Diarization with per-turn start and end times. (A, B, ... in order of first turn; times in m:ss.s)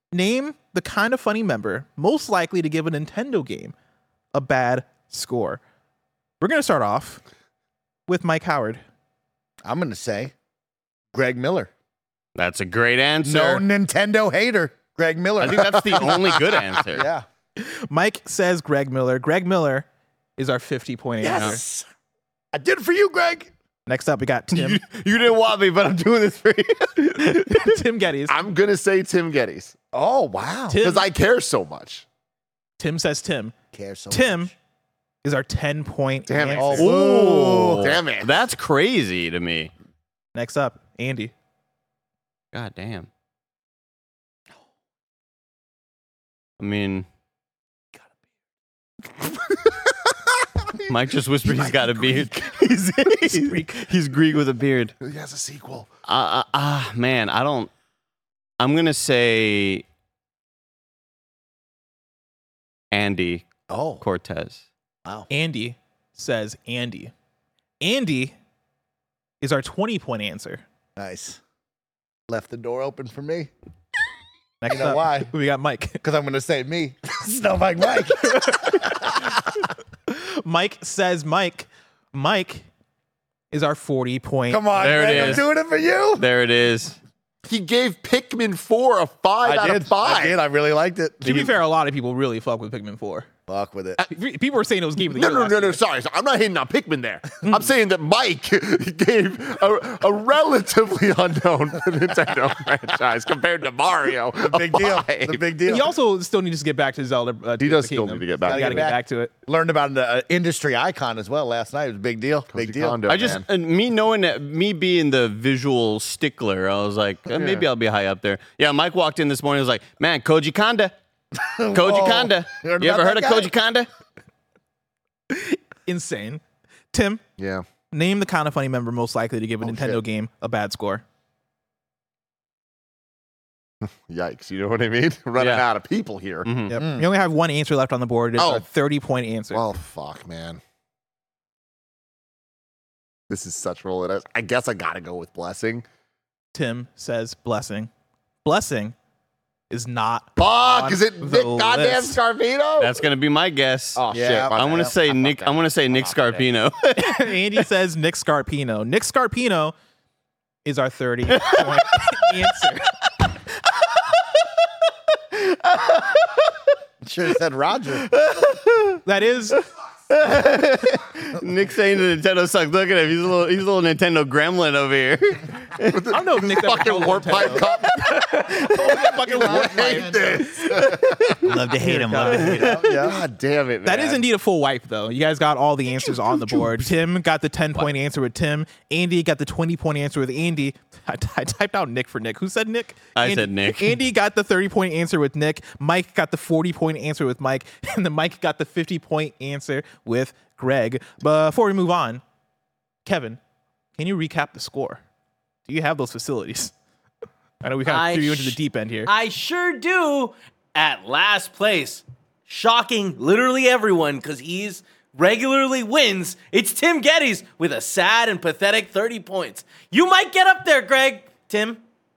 0:00.1-0:03.7 A
0:04.3-0:05.6 A
0:06.4-0:07.2 A
0:08.1-0:08.8 A
0:09.6-0:10.3 B
0:11.1-0:11.7 B
0:12.4-0:13.6 C
0:13.2-0:17.2 B
0:15.4-0:17.1 C
0:17.6-0:19.9 A
0:20.4-0:21.6 A
0:21.2-0:21.9 B
0:22.5-0:23.5 B
0:23.9-0:24.8 A
0:24.5-0:27.8 C
0:27.2-0:28.4 A
0:28.3-0:29.8 D
0:29.9-0:30.8 B
0:30.7-0:31.1 A
0:30.8-0:32.1 D
0:32.8-0:33.6 A
0:33.7-0:34.5 B
0:34.1-0:34.5 A
0:35.2-0:36.9 A
0:36.3-0:38.4 D
0:36.5-0:38.0 B
0:36.8-0:39.7 C
0:40.4-0:41.3 A
0:42.5-0:43.1 C
0:46.6-0:47.1 C
0:49.5-0:49.9 D
0:50.9-0:55.0 C
0:51.6-0:52.3 D
0:53.2-0:53.9 A
0:55.0-0:55.9 D
0:56.1-0:57.7 C
0:58.6-0:59.8 C
1:02.9-1:03.5 C
1:03.7-1:04.0 B
1:04.0-1:04.6 C
1:05.3-1:07.1 A
1:07.8-1:08.3 A
1:09.4-1:10.6 A
1:11.0-1:11.4 B
1:12.3-1:13.5 B
1:14.6-1:16.0 A
1:14.7-1:15.3 B
1:16.0-1:19.4 B
1:18.3-1:18.9 A
1:20.1-1:22.7 A
1:23.5-1:25.4 A
1:24.5-1:26.2 B
1:24.8-1:25.5 C
1:26.2-1:27.0 C
1:27.5-1:30.4 D
1:29.4-1:31.5 B
1:31.2-1:33.3 A
1:33.5-1:34.0 B
1:34.0-1:35.8 A
1:35.2-1:45.4 D
1:44.4-1:45.9 B
1:45.7-1:49.3 A
1:47.6-1:48.9 D
1:48.4-1:53.1 B
1:52.5-1:53.5 D
1:53.1-2:00.9 C
1:57.3-1:57.7 D
2:01.4-2:03.5 B
2:01.7-2:03.9 C
2:05.3-2:07.2 A
2:07.4-2:07.6 D
2:07.9-2:11.0 A
2:09.6-2:10.0 D
2:13.8-2:16.5 D
2:15.4-2:15.6 C
2:16.4-2:16.8 C
2:16.7-2:19.6 A
2:16.7-2:17.1 B
2:18.4-2:18.6 D
2:19.5-2:20.6 D
2:23.3-2:25.8 D
2:26.5-2:27.9 A
2:28.4-2:29.0 A
2:29.7-2:32.2 A
2:30.4-2:33.0 D
2:32.8-2:37.3 C
2:34.0-2:36.5 D
2:34.1-2:34.9 B
2:37.0-2:39.8 A
2:40.6-2:42.9 A
2:41.4-2:42.2 C
2:43.8-2:44.2 C
2:45.3-2:46.4 C
2:47.0-2:48.1 B
2:48.1-2:49.0 C
2:49.0-2:49.6 A
2:50.1-2:56.0 C
2:55.9-2:58.1 D
2:56.1-3:00.3 A
2:59.3-3:03.2 B
2:59.4-3:01.4 D
3:00.6-3:02.9 C
3:01.5-3:02.8 A
3:02.6-3:04.2 D
3:03.8-3:22.2 A
3:06.1-3:06.7 D
3:13.2-3:14.0 C
3:23.0-3:23.4 A
3:24.0-3:25.0 A
3:25.7-3:26.7 A
3:27.6-3:29.1 A
3:27.8-3:41.8 E